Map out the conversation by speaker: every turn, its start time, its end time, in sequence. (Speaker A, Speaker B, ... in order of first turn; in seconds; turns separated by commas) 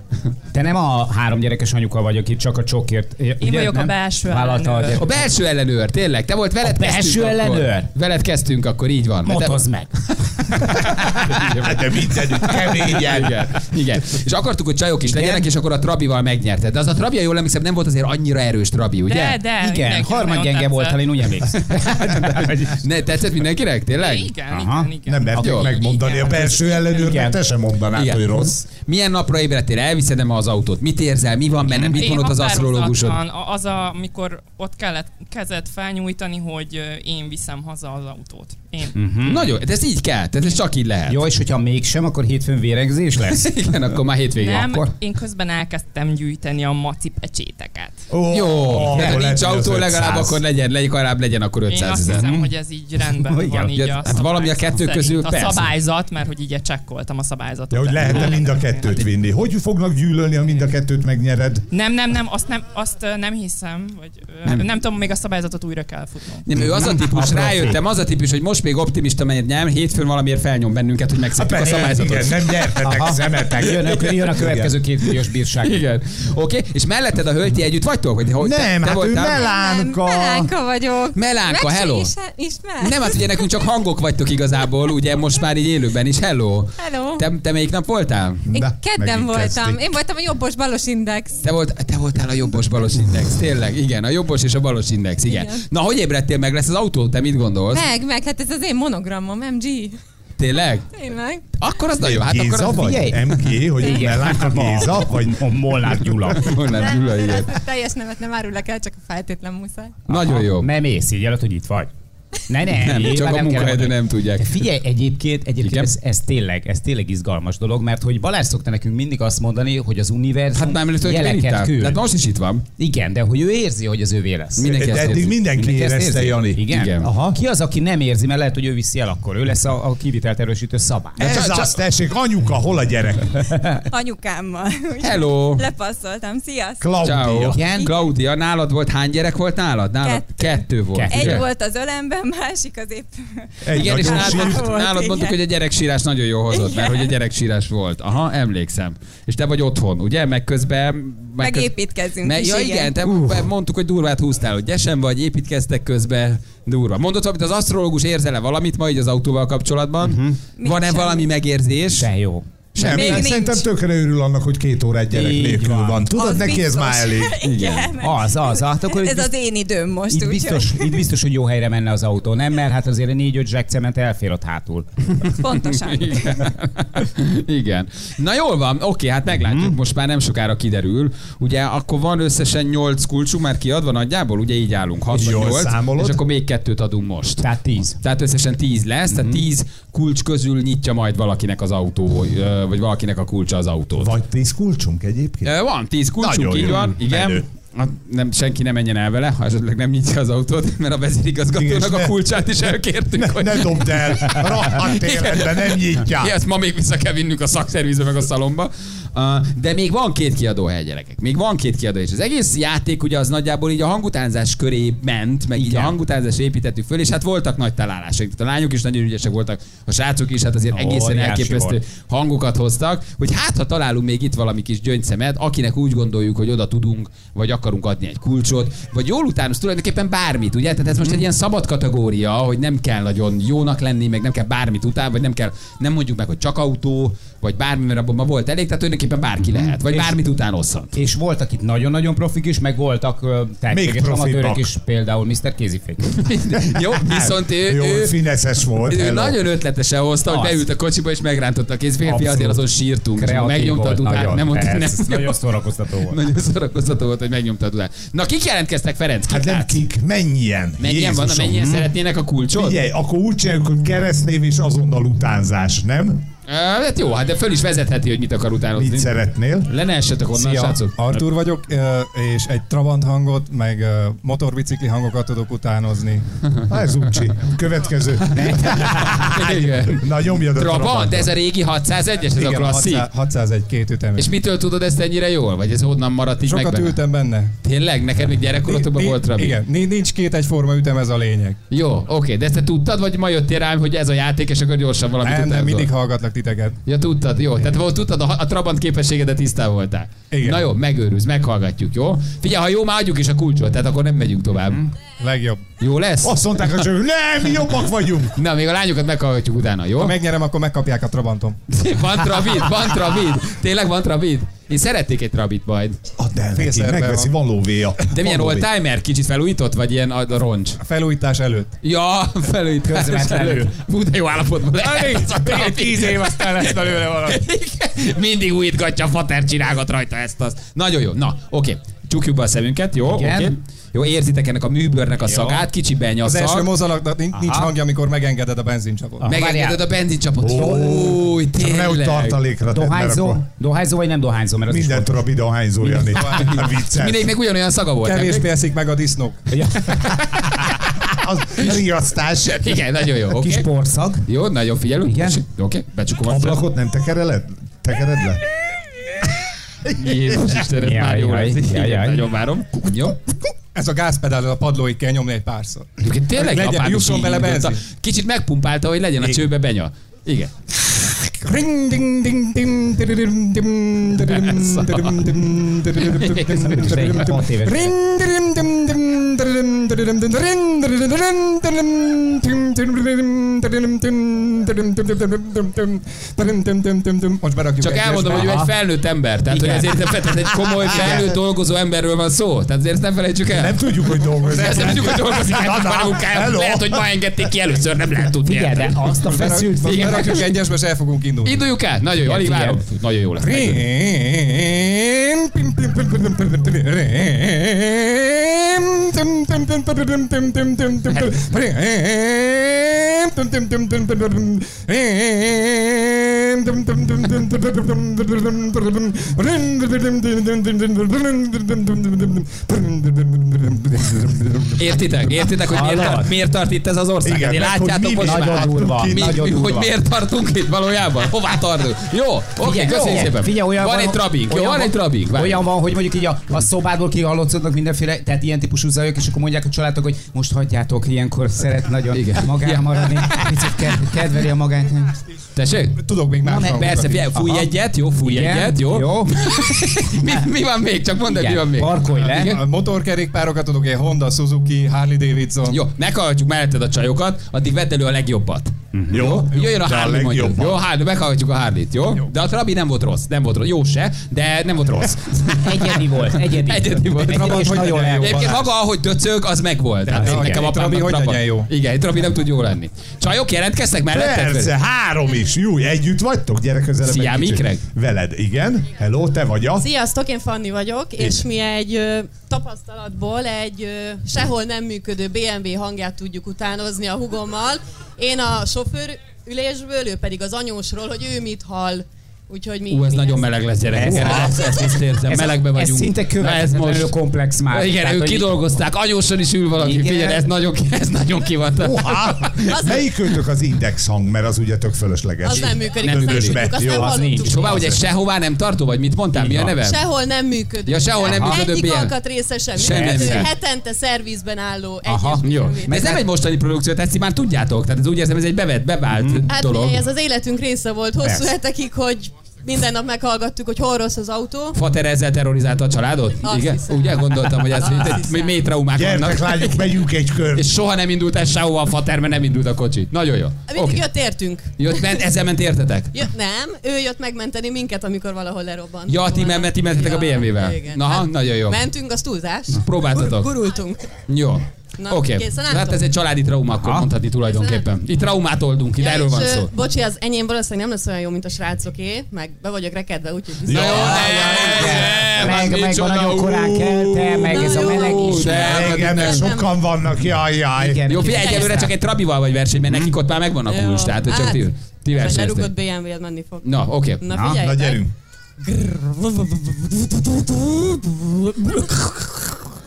Speaker A: 0.5-5.1, Speaker B: 3.4-5.0, Speaker C: 4.9-19.4, Speaker A: 6.6-7.9, Speaker A: 9.2-9.9, Speaker D: 11.5-13.5, Speaker A: 15.1-15.4, Speaker B: 19.0-21.4, Speaker A: 19.6-22.8, Speaker C: 21.5-24.3, Speaker B: 23.9-27.1, Speaker A: 24.5-24.9, Speaker D: 25.1-28.6, Speaker C: 25.4-25.7, Speaker A: 26.9-27.4, Speaker C: 27.9-33.2, Speaker A: 31.7-32.0, Speaker B: 31.9-39.0, Speaker A: 38.9-39.5, Speaker C: 39.2-41.2, Speaker A: 41.1-43.5, Speaker C: 43.3-44.6, Speaker B: 44.4-48.0, Speaker A: 44.5-44.9, Speaker D: 48.1-50.4, Speaker C: 48.3-52.3, Speaker A: 48.9-49.2, Speaker B: 51.7-59.1, Speaker A: 52.2-52.5, Speaker A: 53.3-53.7, Speaker C: 53.7-55.7, Speaker D: 57.7-61.6, Speaker B: 61.7-66.5, Speaker C: 66.5-72.7, Speaker A: 66.5-67.8, Speaker D: 71.3-74.7, Speaker A: 72.8-75.8, Speaker C: 75.6-79.5, Speaker D: 78.4-80.5, Speaker E: 79.3-83.4, Speaker C: 81.1-82.1, Speaker C: 82.8-88.5, Speaker E: 86.8-87.2, Speaker D: 88.5-89.8, Speaker E: 88.5-91.4, Speaker C: 91.4-97.8, Speaker E: 95.2-95.6, Speaker E: 97.7-99.9, Speaker C: 100.4-100.8, Speaker E: 100.9-101.4, Speaker C: 101.6-103.0, Speaker D: 102.0-105.4, Speaker A: 102.8-103.2, Speaker A: 103.8-106.5, Speaker C: 106.3-107.5, Speaker E: 107.2-107.5, Speaker C: 110.1-110.7, Speaker A: 110.1-111.9, Speaker A: 112.5-122.0, Speaker C: 112.7-114.6, Speaker C: 115.6-115.9, Speaker C: 120.5-122.6, Speaker A: 122.8-131.2, Speaker C: 124.6-125.3, Speaker D: 124.7-127.4, Speaker C: 126.7-127.1, Speaker D: 131.2-133.3, Speaker C: 131.2-131.7, Speaker A: 133.5-133.8, Speaker E: 133.9-137.0, Speaker C: 135.0-135.6, Speaker D: 136.8-137.6, Speaker C: 137.0-141.4, Speaker A: 137.5-137.9, Speaker E: 140.0-145.4, Speaker A: 140.9-141.4, Speaker D: 143.6-144.6, Speaker C: 143.7-151.7, Speaker E: 146.5-147.1, Speaker E: 151.4-152.9, Speaker C: 152.2-162.1, Speaker A: 160.0-160.4, Speaker E: 160.6-161.3, Speaker A: 162.0-162.4, Speaker C: 162.7-163.3, Speaker D: 162.8-167.3, Speaker E: 162.8-163.6, Speaker A: 165.1-166.1, Speaker E: 166.1-171.0, Speaker C: 167.4-167.9, Speaker A: 168.0-169.3, Speaker A: 170.1-174.9, Speaker C: 175.2-194.1, Speaker E: 175.4-176.4, Speaker A: 179.4-179.7, Speaker D: 185.1-186.2, Speaker A: 187.4-188.0, Speaker D: 194.0-195.5, Speaker C: 195.4-240.9, Speaker D: 196.2-197.4, Speaker D: 201.5-202.2, Speaker D: 203.1-206.3, Speaker A: 215.6-215.9, Speaker A: 220.7-221.8, Speaker A: 239.4-240.1, Speaker A: 240.9-246.0, Speaker D: 243.7-244.7, Speaker C: 246.2-248.1, Speaker D: 246.7-249.3, Speaker C: 248.8-255.4, Speaker A: 250.3-250.6, Speaker A: 252.0-252.6, Speaker A: 253.2-256.2, Speaker C: 256.1-259.8, Speaker D: 259.3-261.8, Speaker C: 260.8-262.8, Speaker D: 262.5-266.2, Speaker C: 266.5-269.1, Speaker D: 268.8-269.7, Speaker C: 269.7-271.2, Speaker F: 270.3-276.2, Speaker D: 276.7-281.3, Speaker A: 278.3-279.3, Speaker C: 278.6-283.1, Speaker F: 282.3-284.3, Speaker C: 284.2-287.0, Speaker F: 286.4-287.5, Speaker C: 287.6-289.5, Speaker F: 288.6-291.6, Speaker C: 291.7-295.9, Speaker F: 295.2-296.8, Speaker C: 296.9-304.9, Speaker F: 300.3-300.7, Speaker F: 305.2-305.6, Speaker C: 305.8-306.8, Speaker D: 306.2-308.4, Speaker C: 308.4-310.1, Speaker F: 310.0-311.6, Speaker C: 311.7-316.0, Speaker D: 316.2-318.6, Speaker F: 316.6-317.3, Speaker C: 318.1-320.8, Speaker F: 320.8-321.7, Speaker C: 321.8-336.6, Speaker A: 322.8-323.7, Speaker D: 325.2-326.9, Speaker A: 333.1-333.5, Speaker A: 335.2-335.6, Speaker F: 336.2-339.3, Speaker A: 337.3-337.7, Speaker A: 339.2-339.8, Speaker C: 339.3-342.4, Speaker D: 340.4-343.4, Speaker A: 342.7-345.1, Speaker D: 344.7-347.2, Speaker F: 346.1-346.5, Speaker C: 346.4-348.4, Speaker F: 348.0-349.4, Speaker A: 349.5-349.8, Speaker C: 350.0-350.7, Speaker D: 351.2-352.7, Speaker C: 352.4-353.6, Speaker A: 353.4-354.3, Speaker C: 354.3-356.6, Speaker A: 355.1-355.4, Speaker D: 356.3-358.4, Speaker C: 359.9-363.2, Speaker A: 360.8-362.2, Speaker F: 363.7-367.8, Speaker C: 366.0-370.5, Speaker F: 371.4-388.6, Speaker C: 374.2-375.2, Speaker C: 376.0-377.1, Speaker A: 376.6-377.9, Speaker C: 387.8-398.9, Speaker A: 388.3-388.7, Speaker A: 389.5-389.9, Speaker D: 390.9-391.3, Speaker D: 393.5-397.0, Speaker F: 394.5-395.2, Speaker A: 398.4-400.2, Speaker F: 399.3-401.7, Speaker C: 399.9-400.4, Speaker C: 401.4-403.8, Speaker A: 402.2-402.8, Speaker F: 403.4-424.9, Speaker C: 424.8-435.6, Speaker A: 425.7-426.3, Speaker D: 427.2-429.4, Speaker A: 428.2-429.9, Speaker A: 432.6-445.1, Speaker C: 442.1-443.2, Speaker C: 445.6-446.0, Speaker F: 446.0-447.2, Speaker A: 446.4-447.7, Speaker C: 446.8-452.6, Speaker A: 448.2-449.5, Speaker A: 451.3-452.6, Speaker F: 452.1-455.8, Speaker C: 455.7-474.7, Speaker D: 459.1-460.8, Speaker A: 465.6-468.5, Speaker F: 467.3-468.7, Speaker F: 470.0-471.7, Speaker D: 474.1-479.9, Speaker C: 477.1-477.8, Speaker G: 479.8-493.4, Speaker C: 492.9-497.1, Speaker A: 493.9-494.7, Speaker D: 494.1-494.5, Speaker G: 494.4-494.9, Speaker A: 495.3-498.6, Speaker C: 497.7-502.8, Speaker A: 499.8-500.4, Speaker D: 501.8-507.1, Speaker G: 502.7-503.0, Speaker G: 505.4-508.0, Speaker C: 505.5-506.6, Speaker A: 506.8-508.0, Speaker C: 507.4-510.0, Speaker A: 509.3-509.7, Speaker G: 509.8-516.1, Speaker C: 510.9-512.1, Speaker A: 511.2-511.6, Speaker C: 512.7-513.5, Speaker A: 512.9-513.5, Speaker A: 515.0-516.2, Speaker C: 515.4-520.0, Speaker A: 519.1-519.4, Speaker G: 519.5-524.8, Speaker A: 521.2-521.5, Speaker C: 524.7-529.9, Speaker G: 526.4-528.6, Speaker D: 528.9-530.6, Speaker C: 530.5-536.1, Speaker G: 533.7-535.2, Speaker G: 536.1-544.1, Speaker C: 539.1-541.8, Speaker C: 542.8-543.6, Speaker C: 544.3-549.7, Speaker G: 545.0-546.0, Speaker A: 546.8-547.1, Speaker G: 547.4-547.8, Speaker G: 549.0-555.0, Speaker D: 553.6-555.5, Speaker C: 553.7-559.5, Speaker A: 553.9-558.8, Speaker G: 557.5-559.7, Speaker D: 558.5-561.1, Speaker A: 560.8-561.9, Speaker C: 561.1-565.7, Speaker G: 561.4-561.9, Speaker G: 563.7-568.0, Speaker C: 566.6-567.2, Speaker A: 567.3-567.6, Speaker D: 567.6-568.1, Speaker G: 568.6-571.8, Speaker C: 572.0-572.6